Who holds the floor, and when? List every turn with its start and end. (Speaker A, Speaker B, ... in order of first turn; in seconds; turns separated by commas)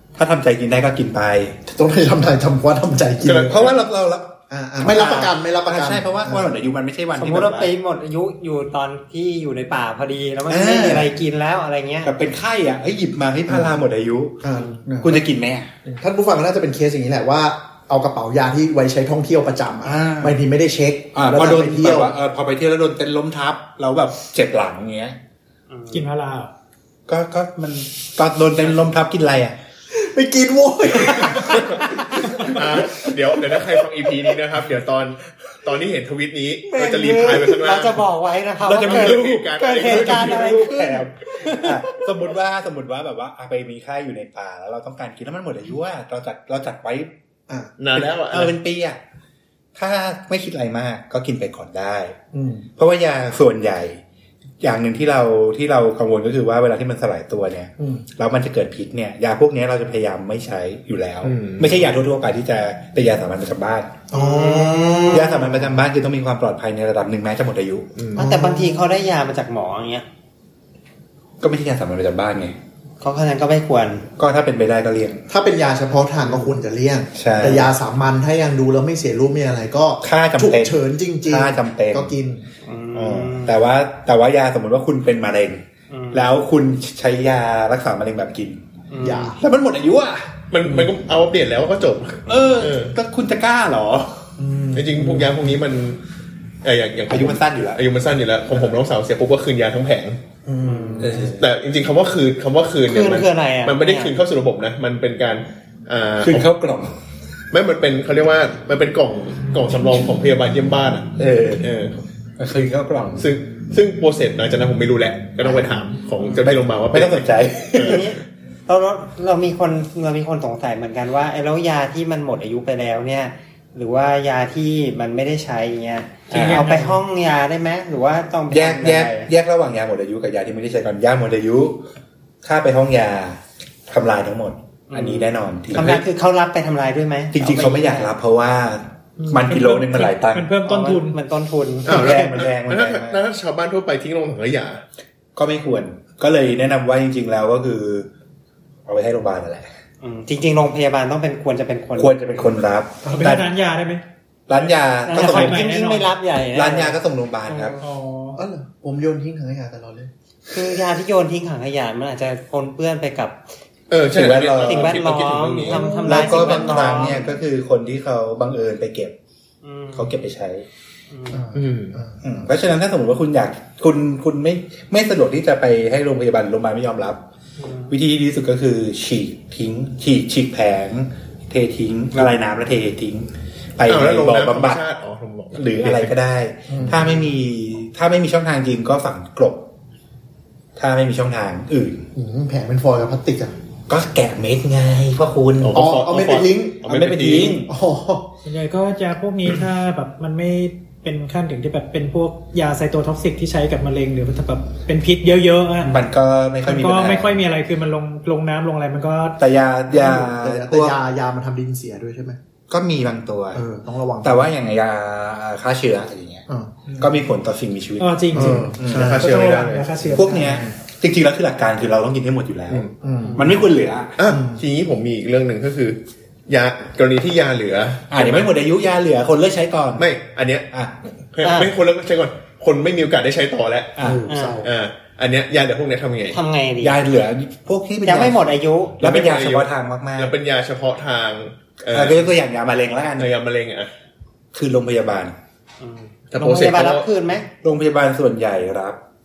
Speaker A: 0.1-1.6, Speaker B: 1.7-3.7, Speaker C: 3.2-3.8, Speaker A: 3.4-7.7, Speaker B: 4.5-6.5, Speaker D: 7.2-12.1, Speaker A: 10.5-11.1, Speaker A: 12.0-14.5, Speaker B: 13.5-13.8, Speaker B: 14.4-15.2, Speaker A: 15.0-15.7, Speaker B: 15.9-22.1, Speaker A: 19.9-20.4, Speaker A: 21.1-25.2, Speaker D: 25.7-26.1, Speaker E: 25.9-26.5, Speaker A: 27.1-29.6, Speaker B: 29.9-33.1, Speaker C: 32.4-38.1, Speaker D: 36.7-41.8, Speaker A: 38.6-47.1, Speaker C: 38.7-40.6, Speaker B: 47.5-47.7, Speaker C: 47.8-48.6, Speaker A: 48.1-49.0, Speaker A: 49.8-52.2, Speaker B: 52.3-52.7, Speaker A: 52.8-54.0, Speaker A: 54.6-63.9, Speaker B: 57.8-58.0, Speaker C: 61.2-61.9, Speaker B: 64.1-65.2, Speaker D: 64.1-65.4, Speaker A: 65.1-67.9, Speaker C: 68.0-68.2, Speaker B: 68.2-68.9, Speaker D: 68.2-70.1, Speaker A: 71.4-72.6, Speaker D: 73.0-74.1, Speaker A: 74.2-75.3, Speaker B: 75.3-82.5, Speaker A: 77.2-77.7, Speaker A: 80.0-82.1, Speaker D: 82.7-83.6, Speaker A: 82.9-88.6, Speaker D: 85.9-86.3, Speaker D: 88.9-89.3, Speaker B: 89.0-89.4, Speaker A: 89.4-90.3, Speaker C: 90.5-93.0, Speaker A: 92.3-94.1, Speaker B: 94.4-95.3, Speaker C: 94.7-96.0, Speaker C: 96.6-100.2, Speaker A: 97.1-97.8, Speaker B: 100.5-101.4, Speaker D: 100.7-101.3, Speaker A: 101.0-101.3, Speaker C: 101.0-106.5, Speaker D: 102.9-104.2, Speaker A: 106.2-106.9, Speaker C: 107.5-112.0, Speaker A: 111.2-111.7, Speaker A: 112.4-113.3, Speaker C: 113.2-118.1, Speaker A: 116.9-118.2, Speaker D: 117.8-129.3, Speaker A: 126.3-126.7, Speaker E: 126.3-127.0, Speaker A: 128.5-131.9, Speaker A: 132.4-136.1, Speaker D: 134.9-138.1, Speaker A: 137.3-140.5, Speaker E: 139.2-141.2, Speaker D: 140.7-142.3, Speaker A: 141.8-143.2, Speaker C: 141.9-144.8, Speaker A: 145.4-148.1, Speaker A: 148.9-149.7, Speaker D: 150.0-152.5, Speaker A: 152.0-153.5, Speaker E: 153.0-154.0, Speaker A: 154.5-155.7, Speaker D: 155.1-157.0, Speaker E: 155.1-156.1, Speaker A: 156.5-157.8, Speaker D: 157.5-157.9, Speaker E: 157.8-158.4, Speaker B: 158.4-160.1, Speaker D: 160.5-163.4, Speaker C: 163.9-165.8, Speaker A: 164.1-165.0, Speaker D: 164.6-167.2, Speaker B: 165.8-167.3, Speaker A: 166.0-169.2, Speaker D: 169.6-170.3, Speaker A: 169.9-170.7, Speaker D: 171.1-171.4, Speaker B: 171.3-172.4, Speaker C: 171.5-172.0, Speaker A: 172.2-177.2, Speaker D: 177.6-177.9, Speaker A: 177.9-184.8, Speaker C: 183.9-186.1, Speaker A: 185.5-189.7, Speaker B: 186.7-187.1, Speaker A: 190.8-192.1, Speaker B: 192.2-193.5, Speaker A: 193.9-195.8, Speaker C: 195.6-197.6, Speaker B: 195.7-196.8, Speaker A: 196.9-197.7, Speaker B: 197.7-198.3, Speaker E: 198.4-206.0, Speaker A: 205.8-207.4, Speaker E: 206.7-209.4, Speaker A: 209.4-211.0, Speaker B: 209.9-212.4, Speaker A: 212.7-213.7, Speaker B: 213.5-214.5, Speaker A: 214.2-216.5, Speaker B: 216.5-216.8, Speaker E: 216.9-217.2, Speaker A: 217.0-219.5, Speaker E: 218.0-220.7, Speaker B: 218.3-219.3, Speaker C: 218.9-219.9, Speaker A: 220.0-224.2, Speaker B: 223.0-223.4, Speaker D: 223.3-223.6, Speaker C: 224.2-228.5, Speaker B: 224.3-224.6, Speaker A: 228.1-230.1, Speaker C: 230.0-230.7, Speaker C: 231.3-234.0, Speaker D: 231.4-231.8, Speaker A: 234.0-234.2, Speaker B: 234.0-234.7, Speaker D: 234.3-234.6, Speaker C: 234.6-236.4, Speaker D: 236.3-237.0, Speaker A: 236.8-238.5, Speaker D: 238.0-239.0, Speaker A: 239.0-240.3, Speaker C: 239.0-242.3, Speaker A: 241.9-243.3, Speaker C: 243.2-243.9, Speaker A: 244.5-245.3, Speaker D: 245.8-247.5, Speaker C: 246.3-247.1, Speaker A: 247.6-249.0